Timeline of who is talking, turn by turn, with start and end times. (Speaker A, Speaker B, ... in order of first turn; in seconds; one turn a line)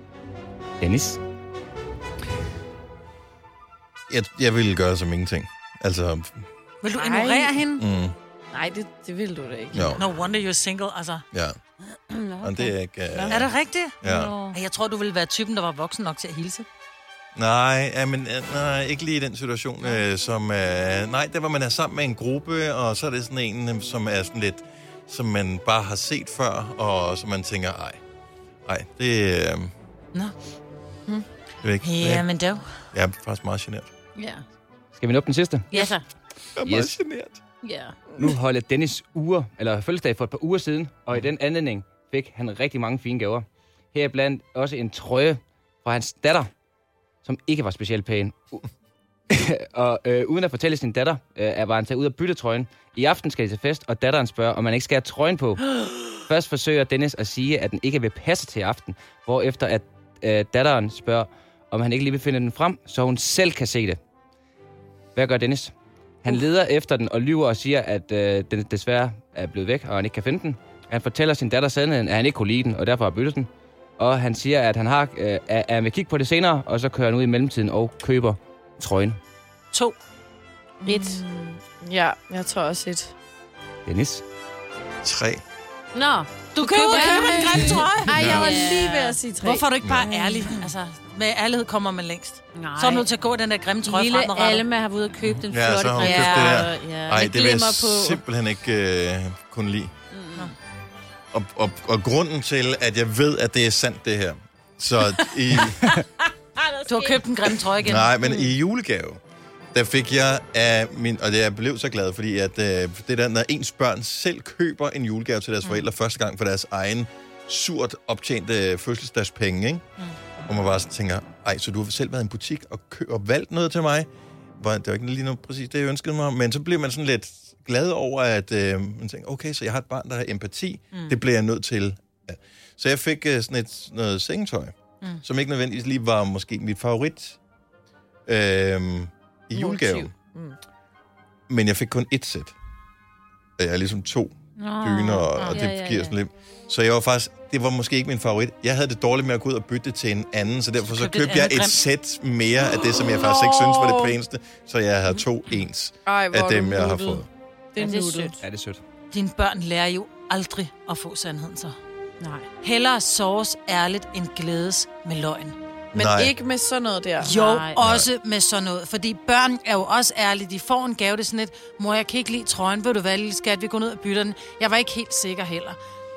Speaker A: 0.8-1.2
Speaker B: 4.1-6.5
Speaker C: 6.8-7.9
Speaker D: 7.0-7.5
Speaker B: 7.8-8.2
Speaker D: 8.5-10.0
Speaker B: 9.7-10.0
Speaker C: 9.9-11.2
Speaker B: 11.3-11.6
Speaker E: 11.9-12.7
Speaker B: 12.4-14.3
Speaker C: 13.2-16.7
Speaker E: 14.0-14.6
Speaker B: 17.4-28.0
Speaker B: 28.7-29.7
Speaker B: 31.6-32.3
Speaker C: 31.8-32.7
Speaker B: 32.9-33.9
Speaker E: 34.2-34.4
Speaker A: 35.0-35.7
Speaker E: 35.7-36.0
Speaker B: 36.6-37.4
Speaker A: 36.6-36.9
Speaker E: 37.6-38.0
Speaker A: 38.2-46.5
Speaker A: 47.2-48.7
Speaker A: 49.3-64.0
Speaker A: 65.2-79.2
Speaker D: 80.8-83.1
Speaker E: 80.8-81.2
Speaker A: 83.9-84.2
Speaker B: 85.0-85.4
Speaker E: 85.9-89.2
Speaker C: 86.5-88.9
Speaker D: 86.7-90.6
Speaker B: 88.1-88.6
Speaker C: 89.4-94.7
Speaker B: 89.8-90.1
Speaker E: 90.3-90.6
Speaker E: 92.5-93.1
Speaker E: 93.8-98.2
Speaker B: 95.4-99.9
Speaker C: 96.0-96.6
Speaker E: 100.1-100.5
Speaker B: 101.3-105.9
Speaker E: 106.6-107.6
Speaker C: 106.9-108.3
Speaker B: 107.8-109.2
Speaker B: 109.7-119.9
Speaker B: 120.5-137.4
Speaker C: 130.9-131.2
Speaker B: 138.3-140.1
Speaker D: 139.6-140.6
Speaker B: 141.5-142.5
Speaker B: 143.6-157.3
Speaker E: 144.6-146.1
Speaker C: 145.4-145.6
Speaker C: 150.8-151.8
Speaker D: 153.1-154.2
Speaker D: 156.1-158.4
Speaker E: 157.8-158.4
Speaker A: 158.4-158.8
Speaker C: 159.1-161.8
Speaker E: 162.2-162.5
Speaker C: 162.6-165.6
Speaker B: 165.9-166.3
Speaker D: 165.9-167.3
Speaker C: 167.2-175.8
Speaker E: 167.2-167.8
Speaker B: 167.8-168.1